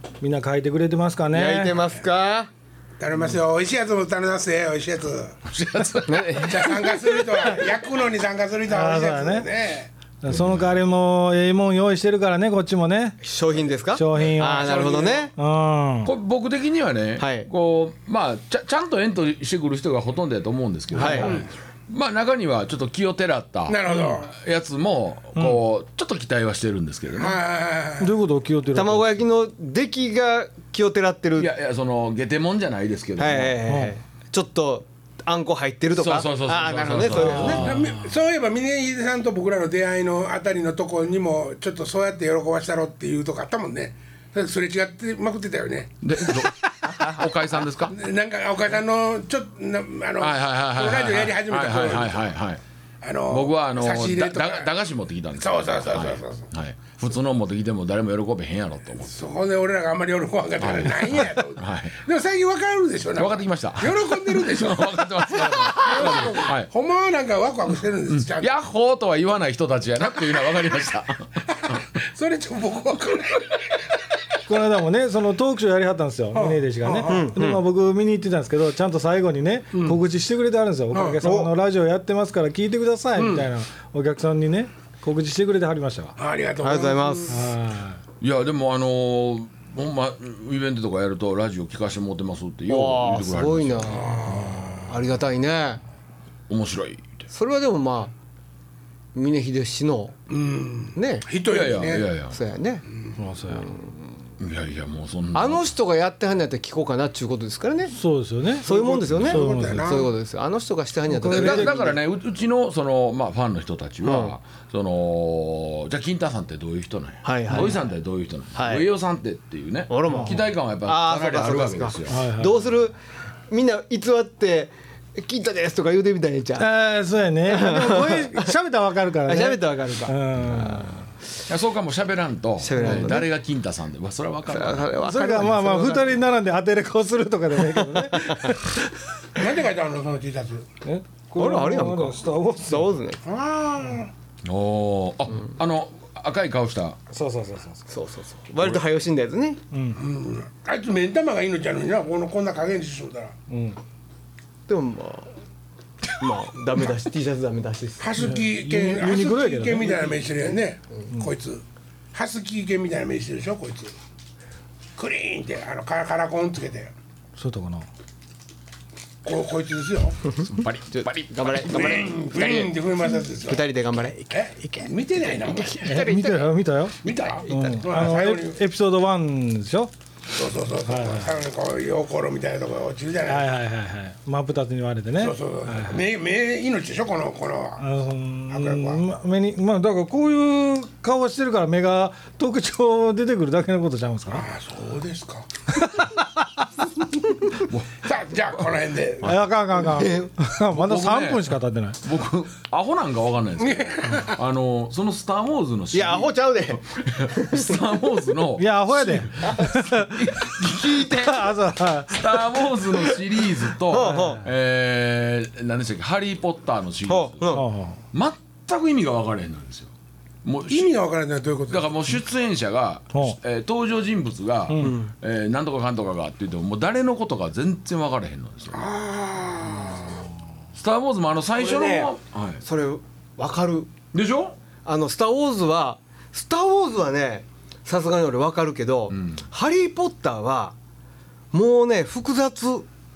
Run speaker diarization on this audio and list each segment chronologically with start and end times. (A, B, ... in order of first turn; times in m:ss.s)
0:00.2-0:01.8 A
0:01.3-0:02.5 B
0:03.0-0:05.4 C
0:05.5-0:06.7 D
0:06.1-0:06.8 B
0:06.3-0:09.9 C
0:08.7-0:09.5 A
0:10.2-0:13.2 A
0:10.3-0:10.7 D
0:13.2-0:15.3 B
0:13.9-0:14.8 A
0:14.4-0:15.3 C
0:15.4-0:16.1 A
0:16.0-0:27.4 D
0:17.2-0:17.5 B
0:20.9-0:21.4 A
0:20.9-0:21.4 B
0:21.2-0:21.5 C
0:23.7-0:24.3 C
0:27.1-0:28.2 C
0:28.0-0:29.1 A
0:28.7-0:31.5 B
0:31.4-0:33.6 D
0:33.2-0:37.6 B
0:33.7-0:33.9 A
0:35.9-0:37.8 D
0:37.1-0:38.1 A
0:37.6-0:46.5 C
0:46.0-0:48.0 D
0:47.9-0:52.3 C
0:50.2-0:52.6 D
0:53.0-0:54.7 C
0:53.3-0:59.3 D
0:55.3-0:56.5 C
0:59.0-1:08.5 C
1:00.6-1:02.0 D
1:03.2-1:06.7 D
1:05.8-1:06.5 B
1:08.1-1:11.8 D
1:11.7-1:13.6 C
1:14.5-1:26.2 A
1:16.3-1:17.3 C
1:17.0-1:17.6 B
1:19.7-1:20.0 C
1:20.9-1:21.2 C
1:21.2-1:21.5 B
1:23.2-1:23.5 C
1:26.2-1:27.5 C
1:26.6-1:27.4 B
1:27.3-1:28.0 A
1:28.2-1:34.1 D
1:32.7-1:34.3 B
1:33.8-1:35.0 C
1:34.3-1:34.8 A
1:34.8-1:35.8 B
1:36.5-1:37.2 D
1:37.3-1:38.1 B
1:39.1-1:40.2 B
1:40.3-1:42.1 C
1:40.9-1:41.3 B
1:41.4-1:42.4 D
1:42.3-1:42.8 B
1:43.2-1:43.7 A
1:43.5-1:44.0 B
1:44.4-1:45.7 D
1:45.3-1:47.9 B
1:47.9-1:48.6 A
1:48.6-1:52.0 B
1:48.6-1:50.1 C
1:49.1-1:49.3 D
1:49.3-1:49.9 A
1:51.1-1:51.8 A
1:51.3-2:02.5 D
1:54.0-1:54.4 B
1:57.2-1:57.8 B
1:57.5-1:57.8 A
1:58.5-1:58.8 B
1:59.9-2:03.0 B
2:02.1-2:02.5 A
2:03.5-2:06.7 B
2:06.6-2:11.1 A
2:07.4-2:08.5 B
2:09.3-2:10.2 B
2:11.5-2:15.0 D
2:12.6-2:13.3 B
2:12.8-2:13.2 A
2:14.5-2:16.2 B
2:15.0-2:18.8 A
2:17.6-2:18.9 B
2:19.3-2:20.7 C
2:20.8-2:22.9 A
2:21.4-2:23.2 B
2:23.2-2:24.1 C
2:24.4-2:27.0 D
2:27.1-2:27.8 A
2:27.9-2:29.6 B
2:29.7-2:30.0 A
2:29.9-2:33.3 C
2:33.5-2:33.8 A
2:34.7-2:35.3 B
2:36.2-2:38.1 B
2:38.0-2:44.0 C
2:38.2-2:40.2 A
2:45.0-2:46.9 C
2:47.4-2:47.9 A
2:49.2-2:50.2 C
2:50.3-2:52.8 B
2:50.4-2:52.0 D
2:51.6-2:53.6 C
2:53.4-2:56.5 B
2:54.3-2:55.9 C
2:55.8-2:59.9 A
2:57.0-2:58.6 C
3:00.3-3:03.5 C
3:00.9-3:01.3 A
3:03.3-3:06.0 A
3:05.2-3:07.8 C
3:07.8-3:14.5 A
3:08.5-3:09.0 C
3:14.3-3:15.5 C
3:15.8-3:16.4 A
3:17.5-3:18.1 D
3:18.0-3:19.4 C
3:19.2-3:22.0 A
3:19.7-3:20.3 B
3:20.7-3:31.5 D
3:23.6-3:24.4 C
3:25.9-3:27.8 B
3:28.6-3:32.4 A
3:29.4-3:29.8 B
3:30.6-3:31.3 B
3:32.0-3:37.6 D
3:32.9-3:34.4 B
3:33.9-3:34.4 A
3:37.1-3:37.7 B
3:37.5-3:38.0 A
3:38.1-3:39.9 D
3:40.4-3:40.9 D
3:40.7-3:41.9 C
3:41.7-3:48.8 D
3:44.7-3:45.0 A
3:44.8-3:45.1 B
3:48.7-3:50.2 C
3:50.7-3:52.6 D
3:51.6-3:53.9 B
3:54.1-3:54.6 D
3:54.8-4:00.7 B
3:59.1-3:59.4 D
4:01.5-4:02.9 B